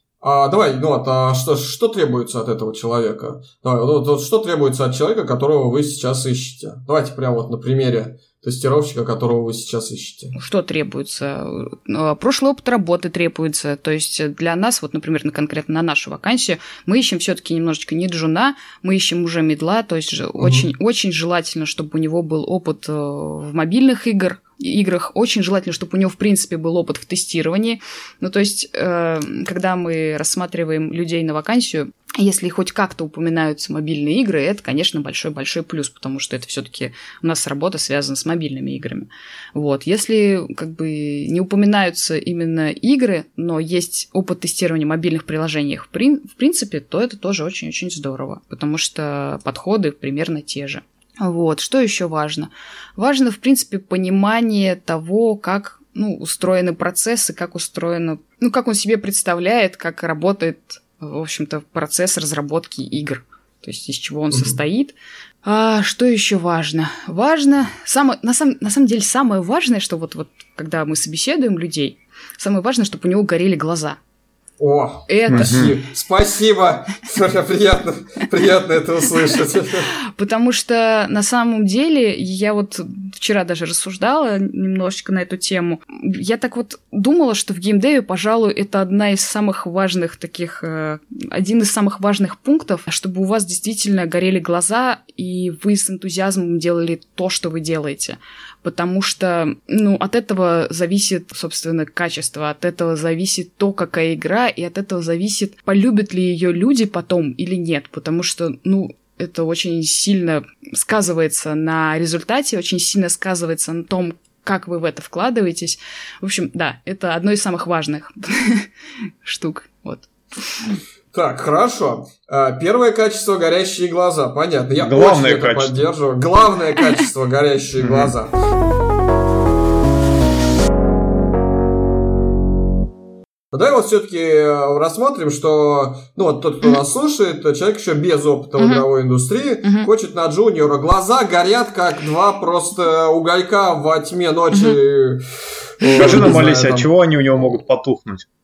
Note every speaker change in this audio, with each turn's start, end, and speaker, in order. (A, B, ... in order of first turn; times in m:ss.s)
0:00.2-0:10.3 A
0:10.4-1:14.0 B
0:20.4-0:20.7 A
1:04.3-1:04.6 A
1:14.6-1:19.9 A
1:15.1-1:15.7 B
1:15.3-1:15.8 C
1:20.2-1:58.7 B
1:59.2-2:00.8 B
2:01.1-2:08.3 A
2:04.8-2:05.8 C
2:07.8-2:08.1 C
2:13.5-2:25.2 A
2:18.6-2:18.8 B
2:19.6-2:19.9 B
2:24.5-2:24.8 B
2:25.8-2:27.6 A
2:25.8-2:26.2 B
2:26.0-2:28.3 C